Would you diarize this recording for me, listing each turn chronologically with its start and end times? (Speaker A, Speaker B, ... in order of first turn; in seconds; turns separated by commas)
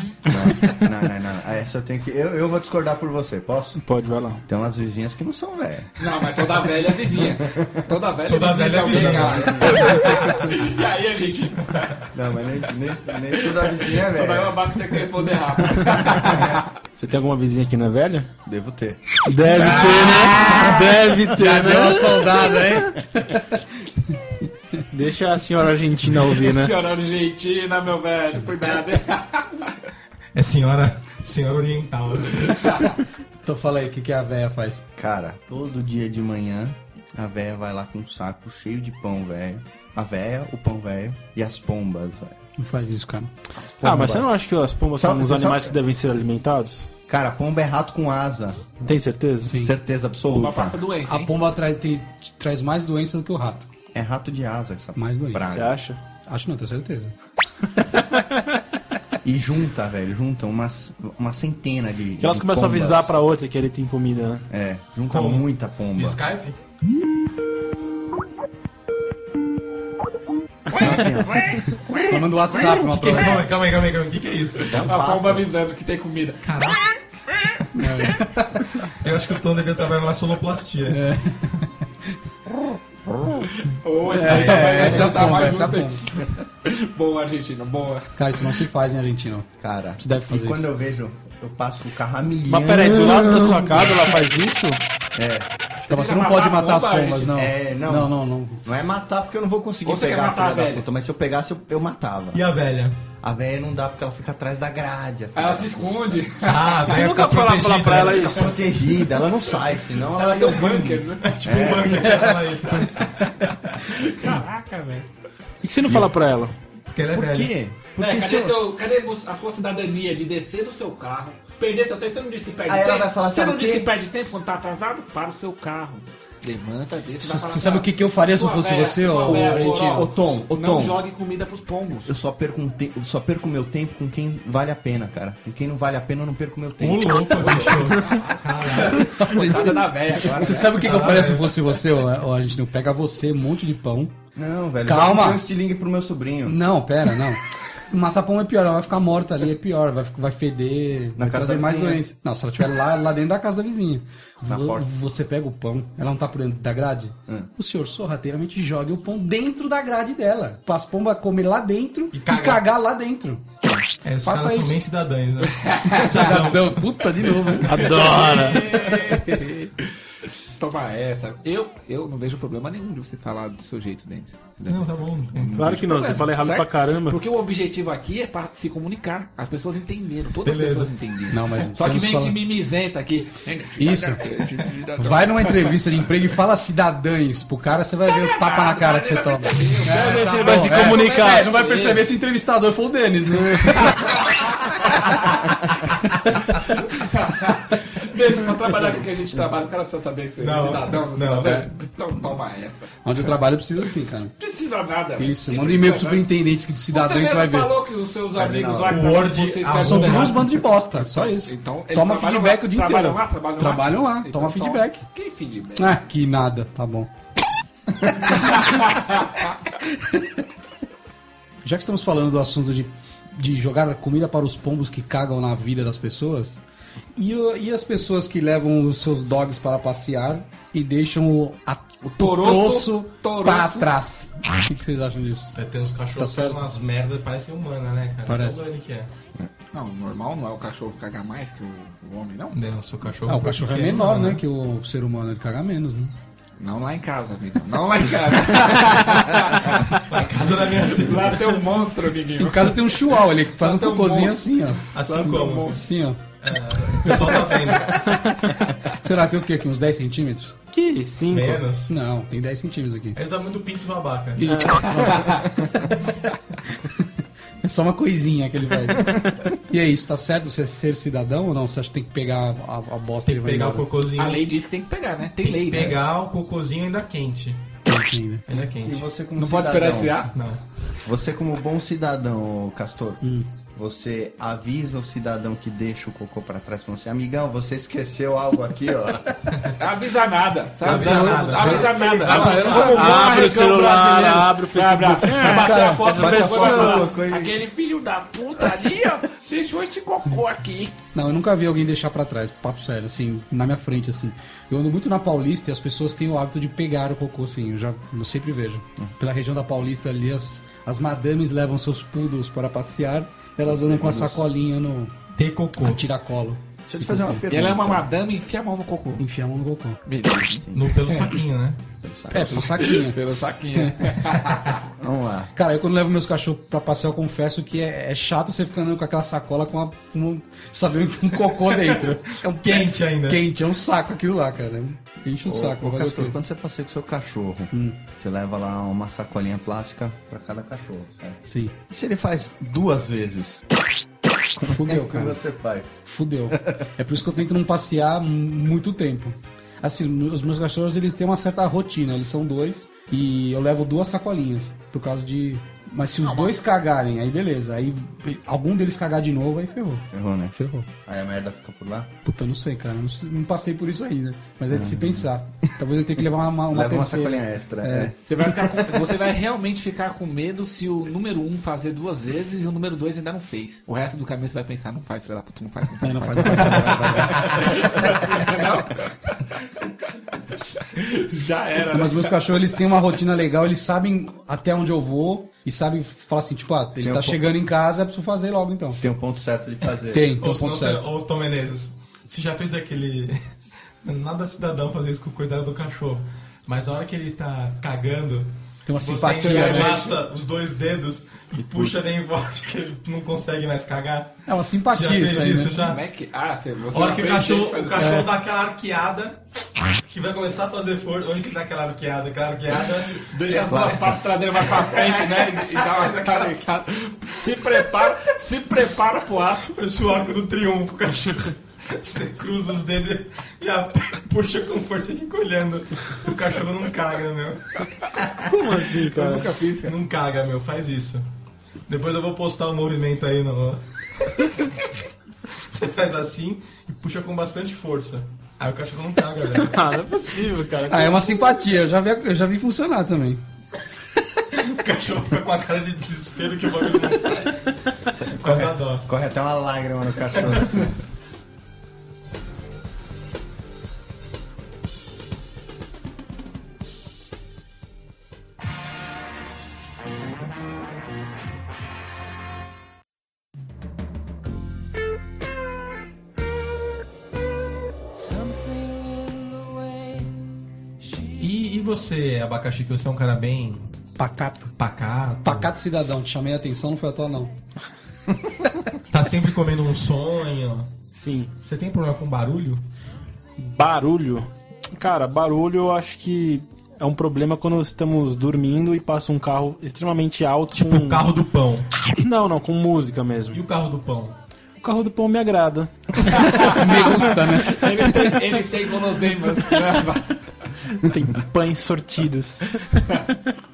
Speaker A: 0.3-3.8, Speaker B: 3.8-4.4, Speaker A: 4.5-6.3, Speaker C: 6.0-12.1, Speaker A: 7.5-7.9, Speaker D: 8.2-10.4, Speaker A: 8.8-9.9, Speaker A: 12.1-14.8, Speaker C: 13.3-16.7, Speaker A: 16.1-16.6, Speaker B: 16.9-18.3, Speaker A: 18.4-19.0, Speaker B: 19.2-22.8, Speaker E: 19.4-24.2, Speaker B: 24.9-26.7, Speaker C: 26.2-29.7, Speaker D: 30.3-32.9, Speaker E: 33.4-34.8, Speaker A: 35.0-42.4, Speaker E: 42.6-43.3, Speaker A: 43.5-44.4, Speaker B: 43.8-46.9, Speaker A: 44.9-45.7, Speaker A: 47.1-48.8, Speaker B: 48.8-49.6, Speaker A: 49.5-50.8, Speaker C: 50.3-51.3, Speaker E: 51.1-53.7, Speaker A: 53.9-55.8, Speaker E: 55.0-55.5, Speaker B: 55.5-56.0, Speaker E: 56.2-57.1, Speaker A: 59.2-63.2, Speaker B: 62.2-64.5, Speaker A: 64.5-66.2, Speaker D: 65.1-66.6, Speaker C: 70.7-72.2, Speaker A: 70.7-71.6, Speaker E: 72.0-73.5, Speaker D: 72.5-74.9, Speaker A: 74.7-75.4, Speaker C: 74.7-77.7, Speaker D: 76.4-76.9, Speaker E: 77.7-78.5, Speaker D: 78.8-81.0, Speaker E: 80.9-81.8, Speaker C: 83.5-88.6, Speaker E: 84.0-86.0, Speaker D: 84.2-85.5, Speaker E: 88.2-89.5, Speaker A: 89.6-94.2, Speaker E: 90.0-90.7, Speaker B: 92.5-94.8, Speaker A: 95.1-95.5, Speaker C: 95.9-97.3, Speaker E: 95.9-98.6, Speaker A: 97.3-98.1, Speaker A: 98.6-102.4, Speaker C: 99.8-100.9, Speaker D: 102.3-103.0, Speaker A: 103.2-106.0, Speaker C: 105.3-106.9, Speaker D: 106.4-108.5, Speaker B: 106.8-108.6, Speaker A: 108.1-112.1, Speaker C: 110.1-111.4, Speaker D: 110.6-113.8, Speaker E: 111.9-112.4, Speaker C: 113.8-115.1, Speaker B: 115.6-116.5, Speaker A: 115.9-116.1, Speaker D: 116.9-117.5, Speaker A: 117.1-118.6, Speaker C: 118.0-132.2, Speaker A: 122.7-123.9, Speaker E: 127.2-130.1, Speaker A: 129.2-131.0, Speaker A: 132.1-137.7, Speaker D: 136.8-139.3, Speaker C: 137.4-141.2, Speaker E: 139.1-144.2, Speaker D: 140.8-141.6, Speaker A: 144.4-146.6, Speaker E: 144.8-145.4, Speaker E: 146.4-163.4, Speaker A: 151.2-152.0, Speaker A: 154.4-154.9, Speaker D: 162.1-162.6, Speaker D: 164.0-168.4, Speaker E: 164.2-164.8, Speaker C: 165.6-166.2, Speaker E: 165.9-167.9, Speaker B: 167.7-168.7, Speaker C: 168.0-169.9, Speaker E: 169.0-169.7, Speaker C: 170.6-185.9, Speaker D: 174.7-175.6, Speaker B: 175.5-177.2, Speaker D: 180.4-180.9, Speaker E: 181.3-182.4, Speaker E: 183.8-184.4, Speaker E: 185.0-195.3, Speaker C: 188.1-192.1, Speaker B: 189.9-191.5, Speaker C: 193.7-195.5, Speaker E: 196.2-196.6, Speaker C: 196.8-203.0, Speaker D: 200.4-201.7, Speaker E: 203.0-204.4, Speaker C: 204.4-206.3, Speaker E: 205.2-207.7, Speaker C: 206.9-216.0, Speaker A: 208.4-208.8, Speaker E: 208.5-208.9, Speaker D: 208.8-210.5, Speaker E: 209.7-215.1, Speaker E: 215.8-217.1, Speaker C: 218.4-219.3, Speaker E: 219.8-220.4, Speaker E: 221.6-226.6, Speaker E: 227.2-235.5, Speaker C: 232.1-233.9, Speaker D: 235.5-239.1, Speaker E: 236.2-236.7, Speaker E: 238.2-238.6, Speaker C: 239.7-242.6, Speaker D: 242.5-244.4, Speaker E: 243.2-246.1, Speaker C: 246.6-255.8, Speaker D: 250.0-251.6, Speaker E: 252.4-256.2, Speaker D: 254.9-255.8, Speaker D: 256.4-258.2, Speaker C: 257.0-257.6, Speaker E: 257.1-257.3, Speaker E: 258.9-260.6, Speaker B: 260.7-261.6, Speaker D: 261.3-261.9, Speaker E: 261.9-263.2, Speaker D: 263.1-264.5, Speaker E: 264.4-265.9, Speaker B: 264.5-264.9, Speaker C: 264.9-265.4, Speaker E: 266.7-267.1, Speaker E: 267.6-273.9, Speaker D: 273.2-274.5, Speaker C: 274.1-276.0, Speaker D: 275.4-277.7, Speaker E: 277.9-278.4, Speaker D: 278.5-279.1, Speaker A: 278.8-280.2, Speaker C: 279.4-280.3, Speaker D: 280.3-280.6, Speaker A: 281.0-283.2, Speaker E: 283.2-283.5, Speaker A: 283.7-289.4, Speaker C: 289.8-301.0, Speaker D: 290.8-293.5, Speaker E: 290.8-293.3, Speaker A: 291.6-292.4, Speaker B: 292.4-297.1, Speaker E: 295.4-296.0, Speaker A: 296.0-297.6, Speaker E: 301.1-315.1, Speaker A: 313.7-314.4, Speaker D: 315.3-316.0, Speaker E: 315.8-317.4, Speaker A: 316.9-318.1, Speaker C: 317.5-319.2, Speaker E: 319.2-320.0, Speaker C: 320.1-321.4, Speaker D: 320.7-321.9, Speaker A: 322.0-322.6, Speaker E: 322.3-323.2, Speaker C: 322.4-324.8, Speaker E: 323.7-324.4, Speaker A: 325.0-325.5, Speaker E: 325.5-336.4, Speaker D: 332.5-333.4, Speaker A: 335.4-343.6, Speaker E: 337.7-338.0, Speaker E: 341.4-341.7, Speaker A: 344.6-346.8, Speaker E: 344.6-345.4, Speaker E: 346.1-360.9, Speaker C: 356.2-356.6, Speaker A: 360.1-362.1, Speaker E: 362.2-368.1, Speaker A: 364.7-365.2, Speaker A: 366.7-368.1, Speaker C: 368.2-379.7, Speaker E: 376.0-378.1, Speaker C: 380.7-382.7, Speaker E: 381.9-389.0, Speaker A: 387.0-387.4, Speaker A: 389.0-390.3, Speaker E: 390.1-391.1, Speaker D: 390.3-393.4, Speaker D: 394.0-406.0, Speaker E: 398.9-400.2, Speaker E: 404.5-405.8, Speaker C: 405.8-408.3, Speaker D: 406.9-409.4, Speaker E: 408.0-408.3, Speaker D: 410.1-416.4, Speaker C: 413.2-419.8, Speaker A: 413.7-414.2, Speaker D: 419.7-428.5, Speaker B: 428.4-429.5, Speaker C: 429.1-430.0, Speaker D: 429.8-431.2, Speaker D: 431.9-434.9, Speaker D: 435.5-439.8, Speaker B: 439.6-441.4, Speaker E: 440.9-443.4, Speaker D: 444.4-447.7, Speaker A: 448.1-450.9, Speaker D: 448.3-449.1, Speaker D: 450.4-450.8, Speaker D: 471.4-473.9, Speaker E: 474.2-474.7, Speaker D: 474.8-475.7, Speaker E: 475.4-477.5, Speaker D: 479.1-480.9, Speaker B: 481.1-481.5, Speaker D: 481.6-482.8, Speaker B: 483.6-491.3, Speaker D: 490.8-491.9, Speaker B: 492.1-493.6, Speaker D: 493.5-494.4, Speaker B: 494.8-496.4, Speaker C: 496.3-500.4, Speaker E: 496.4-498.2, Speaker B: 501.0-502.8, Speaker C: 502.9-503.2